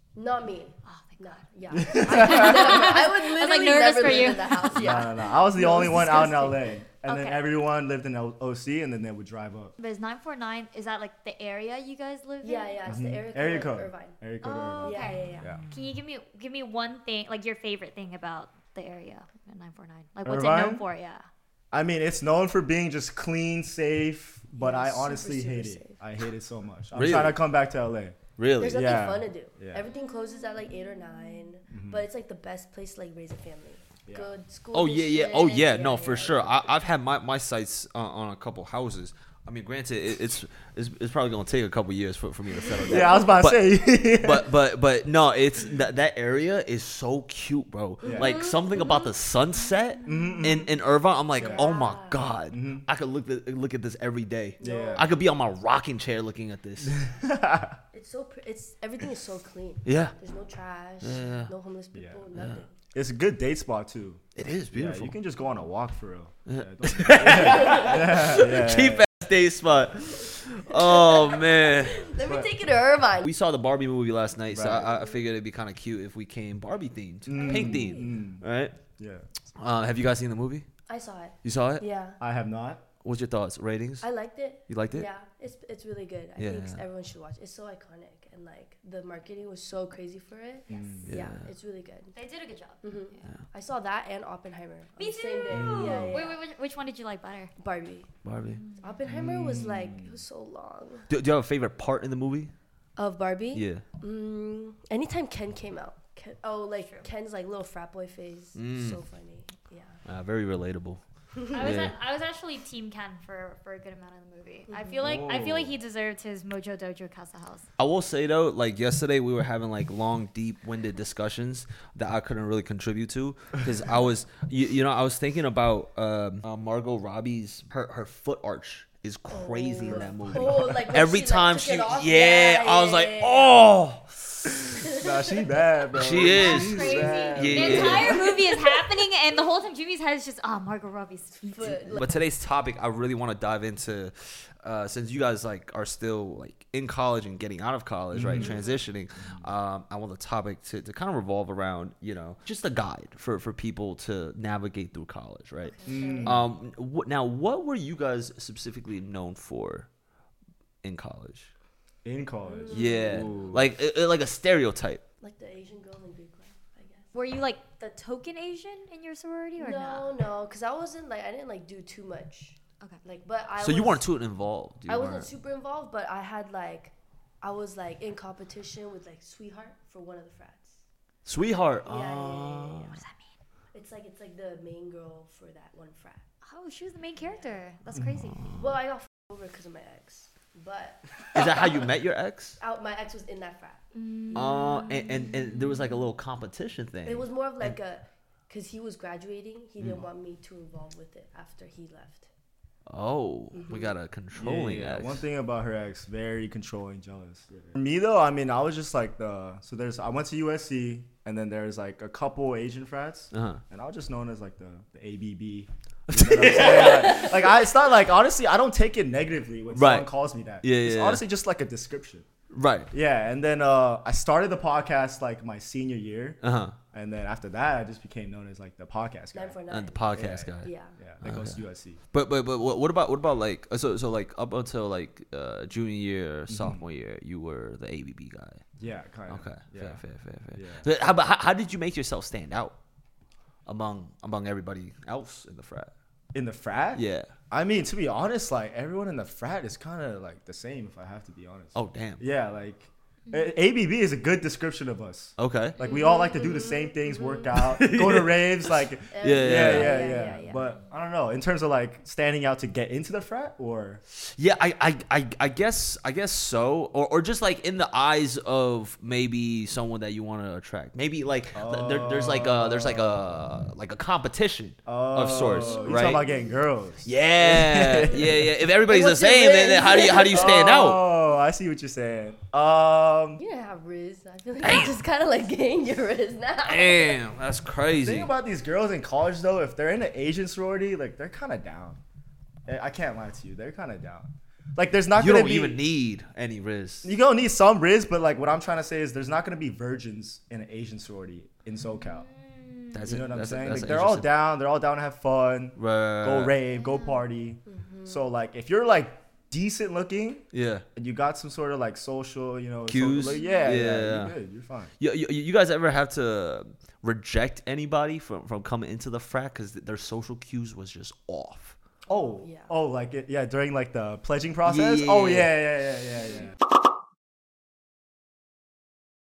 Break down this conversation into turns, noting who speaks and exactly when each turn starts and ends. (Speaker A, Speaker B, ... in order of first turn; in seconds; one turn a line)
Speaker A: 0.1-6.8
Speaker B: 0.8-5.0
Speaker C: 1.7-2.8
Speaker C: 4.7-9.7
Speaker B: 6.0-6.3
Speaker B: 7.0-7.4
Speaker B: 9.8-13.0
Speaker A: 12.4-14.2
Speaker C: 12.9-15.6
Speaker B: 14.4-21.2
Speaker A: 14.8-15.5
Speaker C: 20.2-20.8
Speaker C: 21.7-29.9
Speaker A: 24.5-26.0
Speaker D: 26.9-27.4
Speaker D: 28.4-28.9
Speaker A: 28.6-36.6
Speaker B: 30.0-31.3
Speaker C: 31.7-32.0
Speaker C: 34.1-34.3
Speaker D: 34.7-57.0
Speaker A: 42.7-43.3
Speaker C: 42.9-44.5
Speaker A: 48.0-49.1
Speaker C: 48.0-48.4
Speaker A: 50.0-50.6
Speaker C: 50.0-50.7
Speaker A: 51.3-52.3
Speaker C: 51.4-51.6
Speaker C: 52.5-52.8
Speaker A: 54.6-55.1
Speaker C: 54.6-55.1
Speaker C: 56.8-57.8
Speaker A: 57.9-62.7
Speaker D: 59.8-60.2
Speaker D: 61.0-61.5
Speaker C: 61.9-69.1
Speaker D: 64.3-65.1
Speaker D: 66.5-72.2
Speaker A: 67.2-68.2
Speaker A: 70.2-73.3
Speaker C: 72.2-72.5
Speaker D: 73.2-78.7
Speaker C: 74.5-75.0
Speaker C: 77.2-78.4
Speaker A: 77.3-78.1
Speaker C: 79.0-79.2
Speaker D: 79.6-80.7
Speaker A: 80.9-82.2
Speaker D: 81.4-81.8
Speaker C: 82.2-82.8
Speaker D: 83.0-84.1
Speaker A: 84.0-92.1
Speaker D: 84.7-85.1
Speaker D: 86.4-86.8
Speaker C: 90.7-91.2
Speaker D: 91.0-91.5
Speaker B: 92.1-93.2
Speaker A: 92.8-96.4
Speaker B: 95.0-97.5
Speaker D: 95.5-96.2
Speaker A: 97.6-98.1
Speaker D: 98.2-98.6
Speaker B: 98.5-99.0
Speaker A: 98.8-101.1
Speaker C: 99.0-100.2
Speaker D: 101.1-102.5
Speaker A: 103.0-110.0
Speaker D: 103.5-103.8
Speaker D: 108.5-109.0
Speaker D: 110.0-111.0
Speaker A: 111.4-111.8
Speaker B: 111.5-117.7
Speaker D: 111.5-111.9
Speaker A: 114.7-115.1
Speaker C: 115.0-115.7
Speaker D: 117.8-134.6
Speaker A: 129.3-133.6
Speaker C: 129.9-130.7
Speaker A: 134.6-135.4
Speaker C: 134.9-138.2
Speaker D: 135.9-138.3
Speaker B: 136.1-142.0
Speaker A: 137.7-138.8
Speaker A: 141.5-142.1
Speaker D: 141.9-159.9
Speaker C: 148.1-148.5
Speaker B: 155.6-156.3
Speaker A: 155.8-156.4
Speaker C: 155.8-156.4
Speaker D: 160.8-161.5
Speaker C: 162.0-163.7
Speaker A: 162.4-163.4
Speaker D: 162.7-165.0
Speaker A: 165.2-167.1
Speaker B: 167.1-170.1
Speaker A: 169.6-174.0
Speaker D: 173.6-175.3
Speaker A: 174.9-180.8
Speaker D: 181.2-183.0
Speaker A: 181.8-183.0
Speaker B: 182.9-183.3
Speaker A: 183.7-186.2
Speaker B: 186.4-188.6
Speaker A: 187.2-187.5
Speaker D: 188.3-188.7
Speaker A: 188.5-191.9
Speaker D: 191.3-192.6
Speaker A: 192.6-193.8
Speaker B: 193.9-195.9
Speaker D: 194.3-197.8
Speaker A: 197.0-202.3
Speaker D: 202.9-205.2
Speaker A: 203.5-203.9
Speaker C: 204.3-222.3
Speaker D: 213.3-213.6
Speaker D: 216.1-217.5
Speaker D: 219.7-220.1
Speaker D: 220.6-221.2
Speaker D: 222.5-222.9
Speaker C: 222.9-226.4
Speaker D: 226.4-226.8
Speaker C: 226.9-229.6
Speaker A: 229.3-230.9
Speaker D: 229.7-238.6
Speaker C: 230.1-232.0
Speaker C: 236.5-236.8
Speaker C: 238.8-240.9
Speaker D: 239.3-242.8
Speaker D: 243.7-245.9
Speaker C: 246.3-264.0
Speaker D: 246.9-247.3
Speaker D: 251.7-252.2
Speaker B: 253.3-253.5
Speaker D: 255.4-255.8
Speaker B: 255.8-257.3
Speaker A: 255.9-256.9
Speaker D: 257.5-258.7
Speaker A: 259.1-260.6
Speaker D: 259.2-260.1
Speaker D: 264.1-276.3
Speaker C: 271.5-273.2
Speaker C: 274.9-278.5
Speaker A: 275.4-276.6
Speaker D: 277.0-281.0
Speaker A: 278.9-280.6
Speaker C: 280.3-283.4
Speaker A: 283.4-287.2
Speaker D: 284.6-284.9
Speaker D: 286.6-288.3
Speaker C: 288.0-292.0
Speaker C: 292.7-295.8
Speaker D: 295.1-297.1
Speaker C: 297.0-302.3
Speaker B: 302.0-303.0
Speaker D: 302.9-304.3
Speaker C: 303.1-314.9
Speaker D: 305.8-306.6
Speaker B: 306.7-307.2
Speaker A: 307.6-308.2
Speaker D: 310.5-310.8
Speaker D: 312.9-314.4
Speaker B: 313.2-313.8
Speaker D: 315.0-321.8
Speaker A: 322.1-322.7
Speaker C: 322.1-326.5
Speaker D: 324.6-325.5